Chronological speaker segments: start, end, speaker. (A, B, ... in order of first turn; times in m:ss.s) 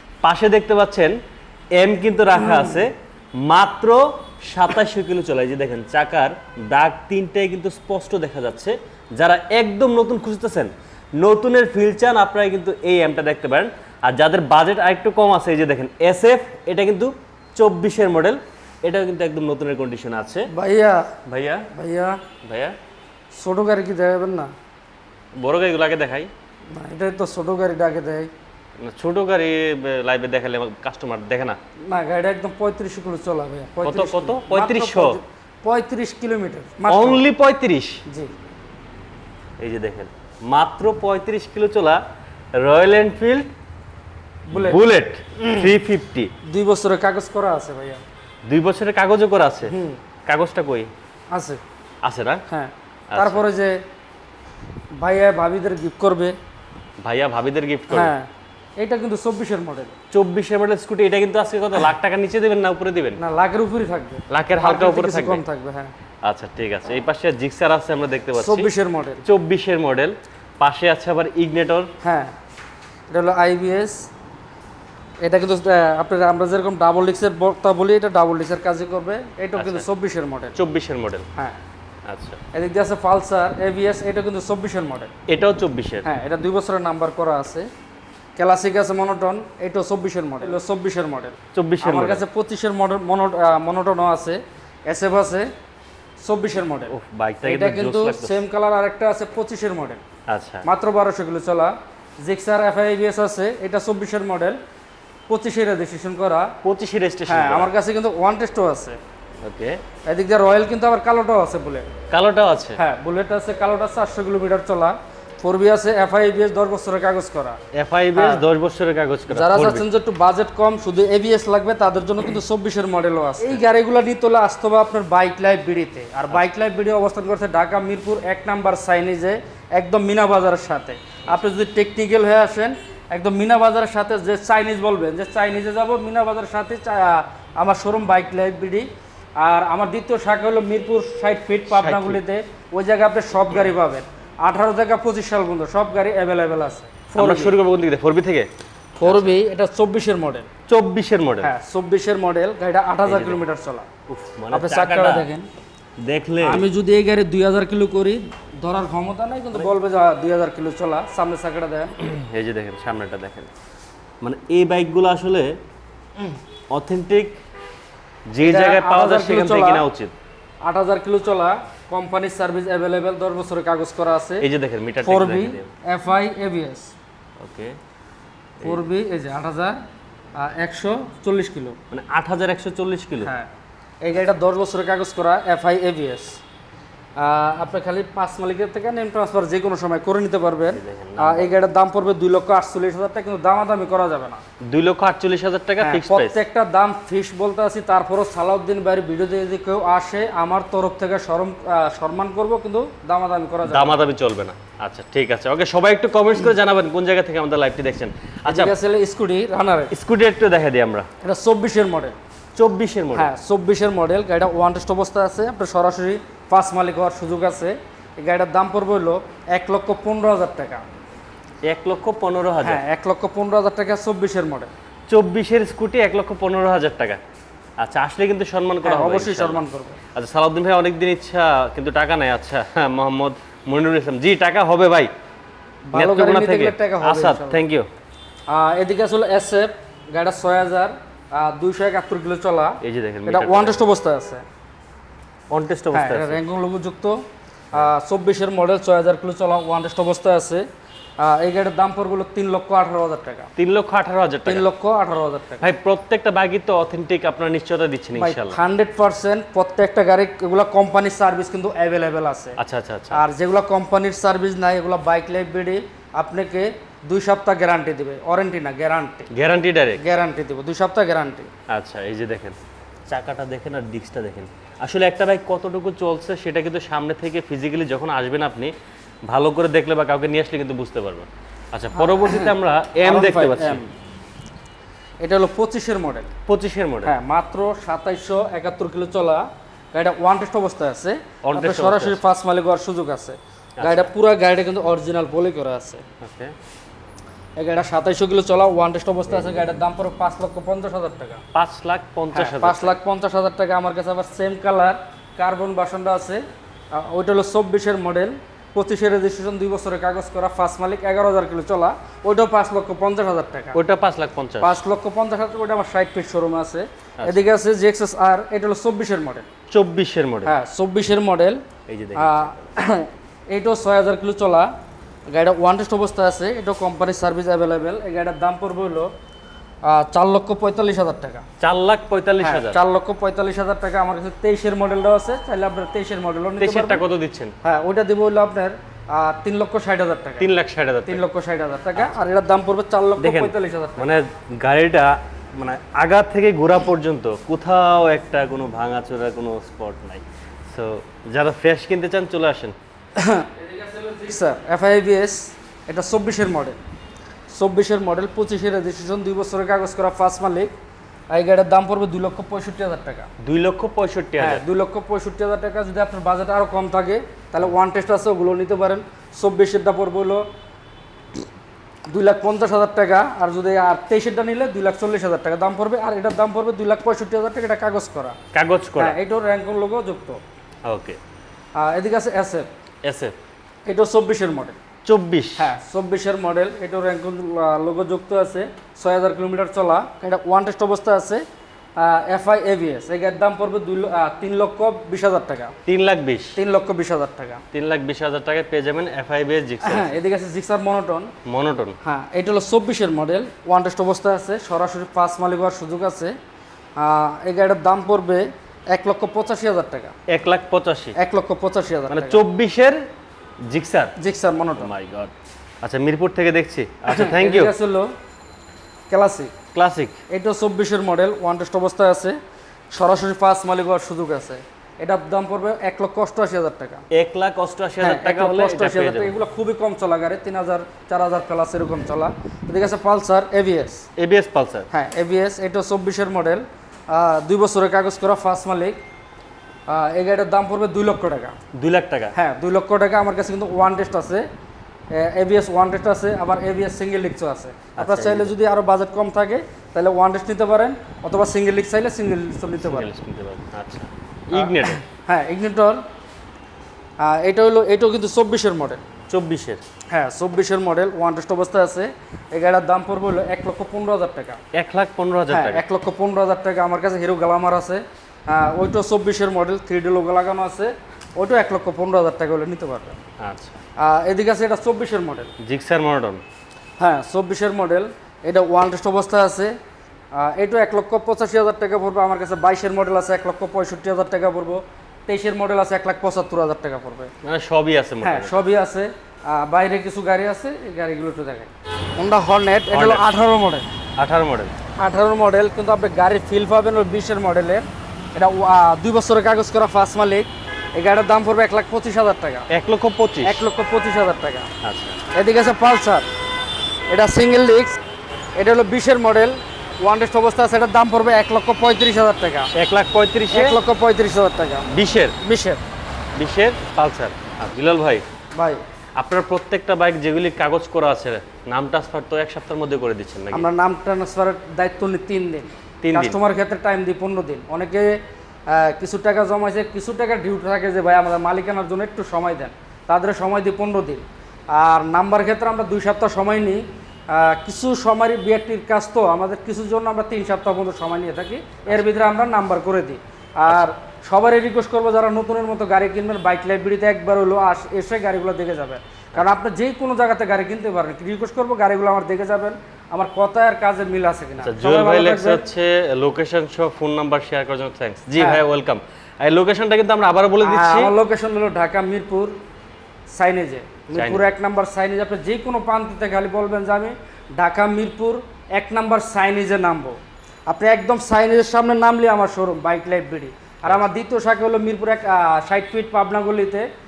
0:00.2-0:01.2 A
0:01.7-0:20.5 A
0:02.3-0:02.9 B
0:20.5-0:21.1 B
0:21.3-0:21.7 A
0:21.7-0:22.2 B
0:22.4-0:22.7 A
0:23.4-0:24.5 B
0:25.4-0:26.3 A
0:26.7-0:28.3 B
0:28.8-0:31.6 A
0:31.9-0:37.2 B
0:33.8-0:35.2 A
0:36.9-0:38.0 A
0:39.6-0:42.0 A
0:42.6-0:43.5 A
0:44.5-0:44.8 B
0:44.5-0:46.3 A
0:45.4-0:45.7 B
0:46.4-0:48.0 B
0:48.5-0:49.7 A
0:49.7-0:50.0 B
0:50.3-0:50.9 A
0:51.3-0:51.6 B
0:52.0-0:52.4 A
0:52.5-0:53.7 B
0:53.1-0:53.4 A
0:55.0-0:56.3 B
0:57.0-0:58.1 A
0:57.9-0:58.3 B
0:58.8-0:59.9 B
1:00.1-1:03.2 A
1:03.2-1:05.9 B
1:04.3-1:05.4 A
1:06.2-1:11.9 A
1:08.4-1:09.2 B
1:12.0-1:12.3 B
1:13.1-1:14.0 B
1:15.2-1:20.6 B
1:19.6-1:19.8 A
1:20.5-1:21.2 A
1:22.1-1:22.4 A
1:22.5-1:25.1 B
1:25.3-1:26.1 A
1:26.0-1:27.7 B
1:28.4-1:35.5 B
1:31.5-1:32.2 A
1:36.2-1:40.0 B
1:36.9-1:38.4 A
1:40.3-1:40.6 A
1:40.6-1:44.6 B
1:45.3-1:46.5 B
1:46.6-1:47.7 A
1:47.3-1:49.0 B
1:49.4-1:49.8 A
1:50.1-1:51.9 B
1:52.1-1:52.8 A
1:52.8-1:57.6 B
1:57.7-1:59.8 A
1:58.1-1:58.4 B
1:59.3-2:18.9 B
2:19.4-2:27.5 B
2:21.7-2:22.2 A
2:27.1-2:28.5 A
2:29.0-2:30.5 B
2:29.0-2:29.3 A
2:30.7-2:31.5 A
2:31.4-2:33.9 B
2:33.1-2:33.4 A
2:34.1-2:35.3 A
2:34.5-2:35.5 B
2:36.0-2:36.6 A
2:36.4-2:41.9 B
2:42.0-2:43.5 A
2:44.2-2:45.6 A
2:46.7-2:47.4 A
2:48.3-2:50.1 A
2:48.4-2:49.8 B
2:50.6-2:54.4 B
2:54.4-2:55.7 A
2:55.0-2:56.9 B
2:57.4-2:57.8 A
2:58.6-2:59.8 B
3:00.4-3:01.8 B
3:01.9-3:03.3 A
3:03.2-3:03.5 B
3:04.0-3:06.4 B
3:07.2-3:14.4 B
3:10.7-3:11.5 A
3:14.6-3:16.4 A
3:15.8-3:24.0 B
3:23.6-3:28.7 A
3:28.5-3:29.9 B
3:29.9-3:31.1 A
3:31.2-3:32.2 B
3:32.6-3:33.3 A
3:33.1-3:40.8 B
3:41.7-3:42.8 A
3:42.6-3:44.7 B
3:45.1-3:47.2 A
3:47.8-3:49.6 A
3:48.8-3:50.0 B
3:50.1-3:55.1 A
3:55.9-3:57.6 B
3:55.9-3:57.9 A
3:58.5-4:02.7 B
4:02.8-4:03.8 A
4:03.3-4:04.4 B
4:05.5-4:06.4 A
4:05.9-4:07.2 B
4:07.7-4:10.6 B
4:11.2-4:13.5 B
4:13.6-4:14.6 A
4:14.4-4:15.7 B
4:15.6-4:18.6 A
4:18.2-4:22.6 B
4:22.6-4:23.2 A
4:23.1-4:29.3 B
4:29.3-4:30.0 A
4:30.0-4:31.5 B
4:31.7-4:32.6 A
4:33.1-4:38.7 A
4:39.3-4:43.8 A
4:42.0-4:43.8 B
4:45.2-4:46.3 B
4:46.5-4:47.1 A
4:47.0-4:56.0 B
4:51.4-4:52.2 A
4:53.8-4:54.1 A
4:56.2-4:56.5 A
4:57.6-5:01.4 B
5:01.5-5:03.0 A
5:02.3-5:13.8 B
5:13.7-5:14.8 A
5:14.6-5:19.5 B
5:17.2-5:17.4 A
5:19.7-5:20.5 A
5:20.4-5:21.6 B
5:21.9-5:22.5 A
5:22.1-5:24.7 B
5:25.3-5:29.1 B
5:29.8-5:31.4 B
5:31.6-5:32.8 A
5:32.4-5:37.0 B
5:36.6-5:37.5 A
5:37.6-5:40.5 B
5:40.4-5:41.2 A
5:41.0-5:44.1 B
5:43.2-5:52.8 A
5:53.2-5:56.8 B
5:57.5-6:00.7 B
6:01.3-6:03.3 B
6:03.4-6:04.6 A
6:04.4-6:10.4 B
6:12.1-6:18.4 B
6:18.5-6:19.2 A
6:19.0-6:20.4 B
6:20.9-6:21.2 A
6:21.8-6:22.7 B
6:23.0-6:23.3 A
6:23.9-6:24.8 B
6:25.0-6:25.7 A
6:25.6-6:31.4 B
6:32.0-6:35.7 B
6:35.8-6:36.6 A
6:36.6-6:37.6 B
6:37.7-6:40.2 A
6:39.8-6:41.3 B
6:41.4-6:42.0 A
6:42.0-6:46.3 B
6:47.0-6:50.1 B
6:50.3-6:51.2 A
6:51.2-6:52.4 B
6:52.1-6:53.0 A
6:53.7-6:54.1 A
6:54.2-6:54.9 B
6:54.8-6:57.7 A
6:57.1-6:58.1 B
6:59.1-6:59.5 B
6:59.7-7:00.2 A
7:00.3-7:02.4 B
7:02.9-7:07.0 B
7:07.1-7:09.3 A
7:08.0-7:14.0 B
7:14.2-7:14.9 A
7:14.9-7:19.0 B
7:19.9-7:21.5 B
7:21.7-7:22.3 A
7:22.3-7:24.4 B
7:25.1-7:33.1 B
7:28.0-7:28.5 A
7:32.8-7:35.0 A
7:35.2-7:36.0 B
7:37.2-7:39.0 B
7:39.3-7:39.8 A
7:40.1-7:44.6 B
7:44.7-7:45.8 A
7:45.5-7:53.2 B
7:53.4-7:53.8 A
7:54.0-7:55.5 B
7:55.6-7:56.4 A
7:57.0-7:59.7 B
8:00.4-8:07.3 B
8:07.4-8:08.7 A
8:08.2-8:13.8 B
8:12.9-8:13.2 A
8:14.2-8:14.7 A
8:15.0-8:22.7 B
8:22.7-8:23.6 A
8:23.4-8:24.7 B
8:24.8-8:25.2 A
8:25.3-8:26.2 B
8:27.1-8:28.0 B
8:28.6-8:32.7 B
8:32.7-8:33.8 A
8:33.5-8:34.9 B
8:34.9-8:35.4 A
8:35.4-8:35.8 B
8:36.4-8:38.2 A
8:38.5-8:38.8 B
8:39.2-8:43.7 A
8:43.5-8:48.2 B
8:46.0-8:46.4 A
8:48.7-9:15.6 B
9:14.6-9:21.1 A
9:18.4-9:18.6 B
9:20.6-9:22.5 B
9:23.3-9:36.9 B
9:24.1-9:24.5 A